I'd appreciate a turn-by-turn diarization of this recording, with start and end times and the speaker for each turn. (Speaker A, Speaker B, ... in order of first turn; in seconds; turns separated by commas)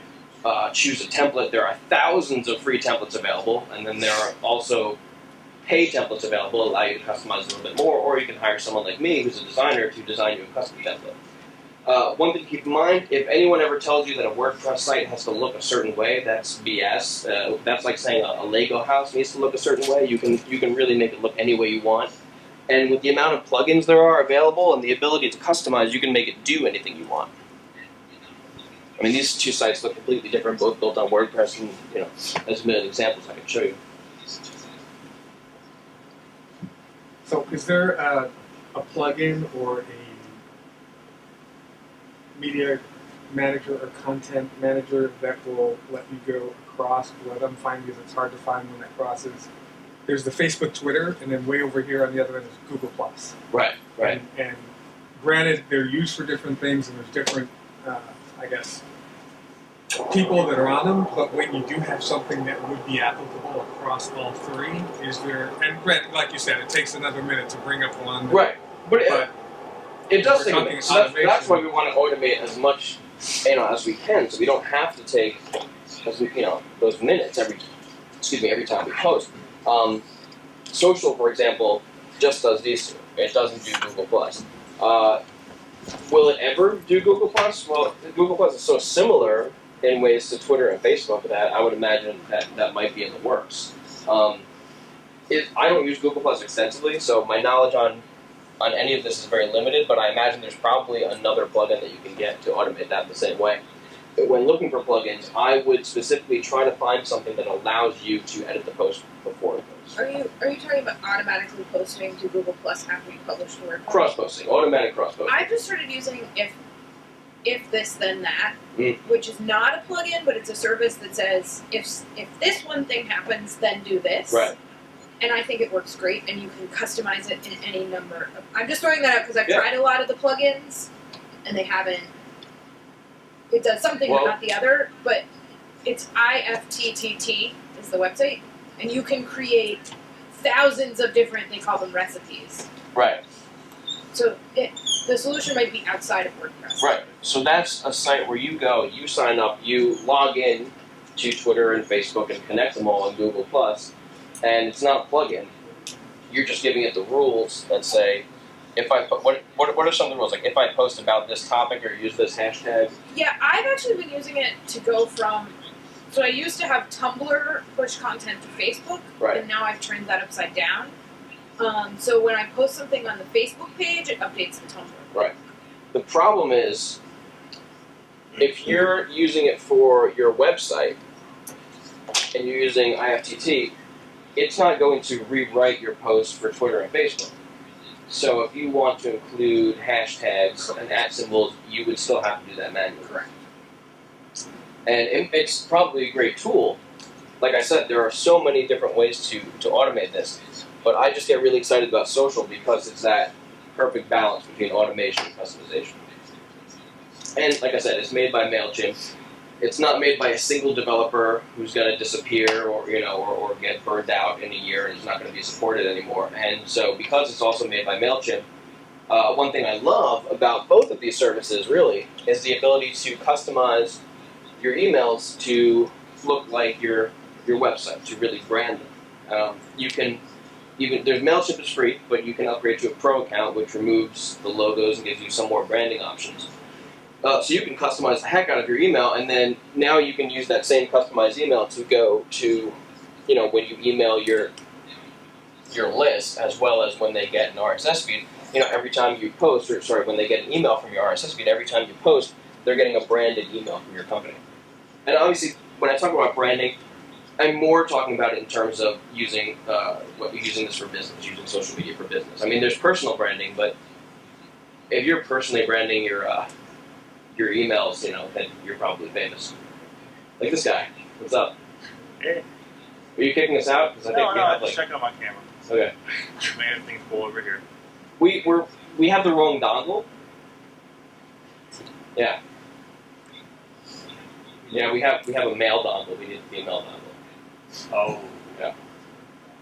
Speaker A: 0.4-5.0, Speaker A: 5.6-11.2, Speaker A: 11.8-22.1, Speaker A: 22.7-27.3, Speaker A: 29.0-33.8, Speaker B: 37.2-40.4, Speaker B: 42.4-49.5, Speaker B: 50.0-53.3, Speaker A: 53.5-54.2, Speaker B: 54.0-58.8, Speaker B: 60.1-69.3, Speaker A: 68.3-69.3, Speaker A: 70.1-75.4, Speaker B: 70.1-71.7, Speaker A: 76.0-77.6, Speaker A: 78.2-80.0, Speaker A: 80.7-85.2, Speaker A: 86.0-94.4, Speaker A: 95.3-98.0, Speaker A: 98.6-103.6, Speaker A: 104.2-109.9, Speaker C: 109.9-114.2, Speaker A: 113.9-115.4, Speaker C: 115.3-116.5, Speaker C: 117.4-124.5, Speaker A: 118.7-119.0, Speaker A: 124.3-124.5, Speaker C: 125.2-130.9, Speaker C: 131.4-132.1, Speaker C: 133.5-135.2, Speaker A: 134.0-134.3, Speaker C: 135.8-142.7, Speaker A: 142.9-143.2, Speaker C: 144.1-147.0, Speaker A: 146.8-155.5, Speaker A: 156.3-162.9, Speaker C: 163.1-165.5, Speaker C: 166.1-170.9, Speaker C: 171.6-175.2, Speaker A: 175.9-177.0, Speaker A: 178.4-181.0, Speaker A: 182.3-183.7, Speaker A: 184.3-187.3, Speaker A: 188.1-193.1, Speaker C: 193.0-193.3, Speaker A: 194.8-196.8, Speaker A: 197.4-206.0, Speaker A: 207.3-209.0, Speaker A: 209.6-218.4, Speaker A: 219.1-224.0, Speaker A: 224.6-230.2, Speaker A: 230.8-236.5, Speaker A: 237.2-242.8, Speaker A: 243.3-244.5, Speaker A: 245.7-254.4, Speaker A: 255.1-256.8, Speaker A: 257.4-263.7, Speaker A: 264.9-266.5, Speaker A: 267.3-269.7, Speaker A: 270.4-271.5, Speaker A: 273.1-274.8, Speaker D: 274.1-275.5, Speaker A: 275.7-275.9, Speaker D: 276.4-277.6, Speaker A: 278.2-280.1, Speaker A: 284.7-287.1, Speaker D: 287.9-288.6